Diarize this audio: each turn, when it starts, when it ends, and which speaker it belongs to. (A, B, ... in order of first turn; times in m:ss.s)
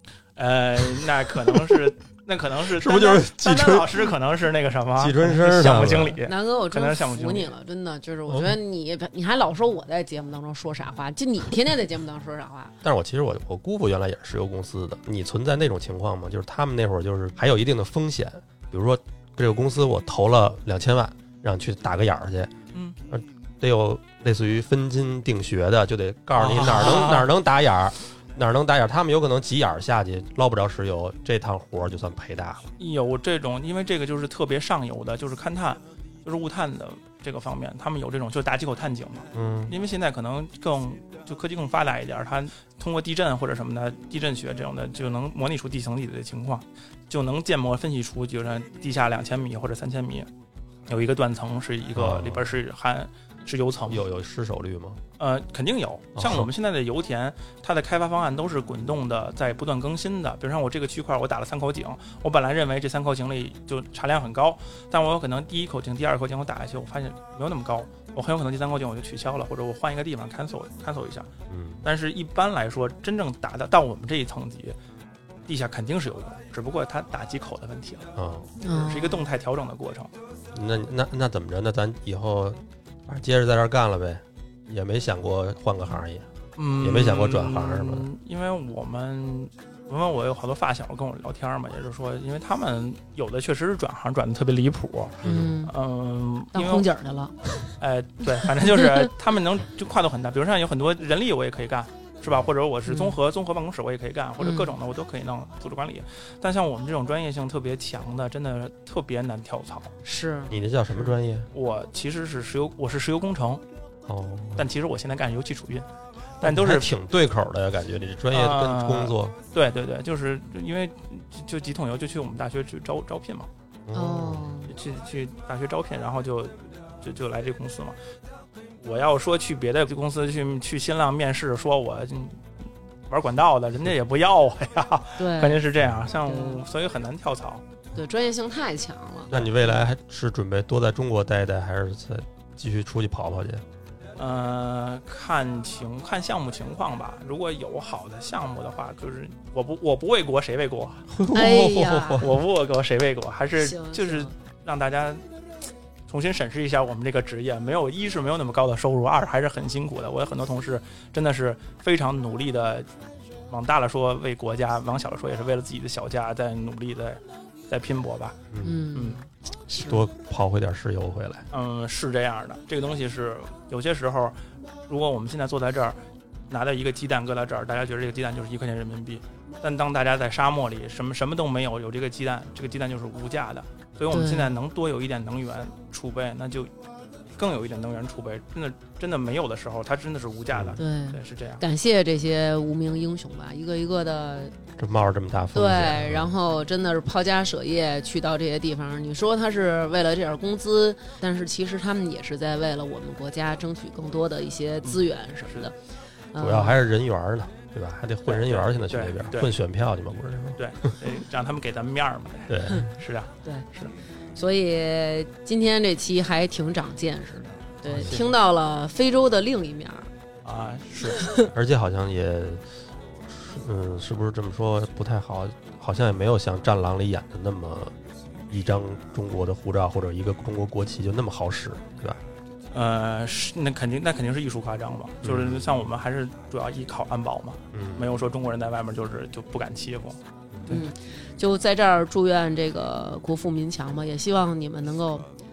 0:00.4-0:07.5 A
0:02.7-0:04.1 B
0:05.0-0:06.2 B
0:06.2-0:12.7 C
0:08.3-0:08.6 B
0:12.8-0:22.5 B
0:23.1-0:32.7 B
0:26.4-0:27.3 A
0:32.8-0:50.3 A
0:39.3-0:39.7 B
0:50.9-0:54.0 A
0:51.9-0:52.5 B
0:53.9-0:55.0 B
0:55.2-1:11.3 A
0:56.2-0:56.5 B
1:11.5-1:11.8 B
1:11.8-1:14.8 A
1:15.5-1:18.1 A
1:18.2-1:18.5 B
1:18.6-1:19.2 C
1:18.7-1:20.1 A
1:20.5-1:28.1 B
1:26.6-1:36.9 A
1:35.2-1:35.6 B
1:35.2-1:35.7 C
1:36.5-1:37.7 C
1:37.8-1:49.9 A
1:38.6-1:39.0 C
1:42.9-1:43.2 C
1:44.4-1:44.7 C
1:50.0-1:50.6 C
1:50.5-1:51.5 B
1:51.5-1:53.6 A
1:54.1-1:54.7 B
1:54.6-1:55.9 A
1:56.4-1:56.9 A
1:56.4-1:59.4 B
1:58.3-2:03.5 A
2:03.8-2:04.5 B
2:03.9-2:04.7 C
2:04.7-2:08.0 A
2:08.8-2:12.4 A
2:13.1-2:17.6 A
2:15.2-2:15.6 C
2:16.2-2:16.6 C
2:17.9-2:19.5 C
2:19.3-2:23.6 B
2:24.2-2:31.1 A
2:31.1-2:32.3 B
2:31.3-2:32.2 C
2:32.2-2:35.2 A
2:33.6-2:34.3 C
2:36.1-2:42.9 A
2:43.5-2:48.4 A
2:48.5-2:48.8 B
2:48.6-2:50.0 C
2:49.8-2:51.4 B
2:51.5-2:54.4 A
2:54.9-2:56.0 A
2:56.5-3:06.7 A
3:04.1-3:04.5 C
3:07.4-3:11.6 A
3:10.5-3:10.8 B
3:10.8-3:14.6 C
3:14.8-3:16.3 B
3:15.5-3:25.7 C
3:26.3-3:26.8 C
3:26.4-3:30.6 B
3:28.3-3:29.5 A
3:30.6-3:33.9 A
3:32.5-3:32.9 B
3:34.4-3:40.1 C
3:37.9-3:38.4 A
3:40.4-3:41.3 A
3:41.5-3:42.6 B
3:43.3-3:47.9 B
3:48.5-3:52.2 B
3:52.7-4:00.8 A
3:55.2-3:55.8 B
3:57.7-3:58.1 B
4:00.7-4:05.3 C